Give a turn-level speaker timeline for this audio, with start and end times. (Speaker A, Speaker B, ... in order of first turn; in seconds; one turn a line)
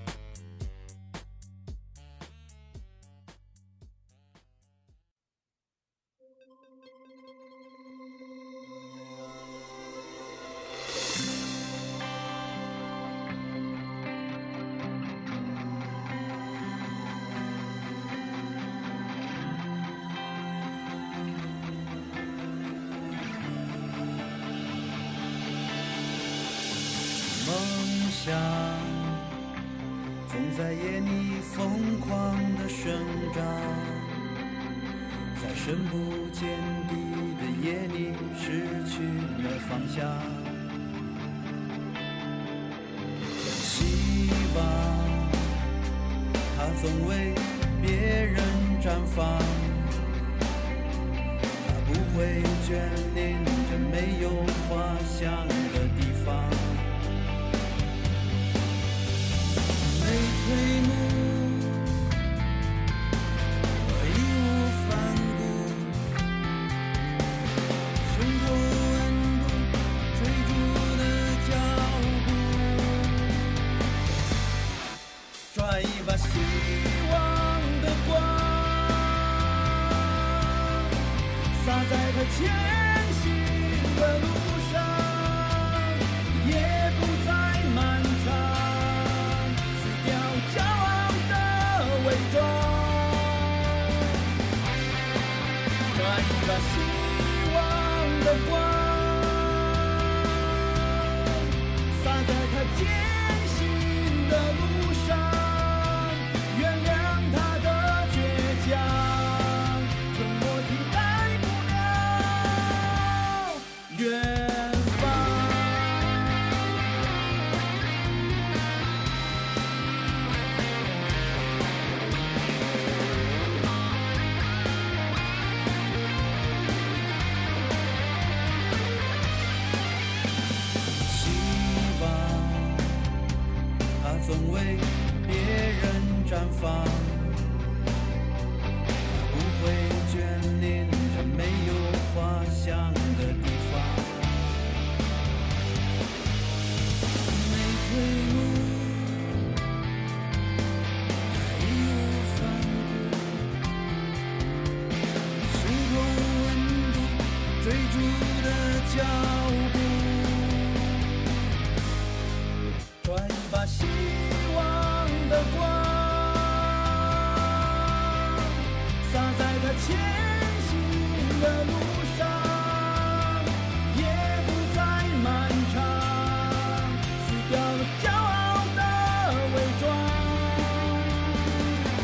Speaker A: 27.2-29.3
Speaker A: 30.2-34.2
Speaker A: 35.4-40.7
Speaker A: 43.5-45.6
Speaker A: 46.5-50.0
Speaker A: 51.6-57.0
Speaker A: 59.8-62.2
Speaker A: 63.7-66.1
Speaker A: 68.0-73.5
Speaker A: 75.5-94.2
Speaker A: 95.9-116.5
Speaker A: 131.1-133.1
Speaker A: 134.0-137.6
Speaker A: 139.1-144.4
Speaker A: 147.2-149.6
Speaker A: 151.3-153.5
Speaker A: 155.4-161.3
Speaker A: 163.0-181.6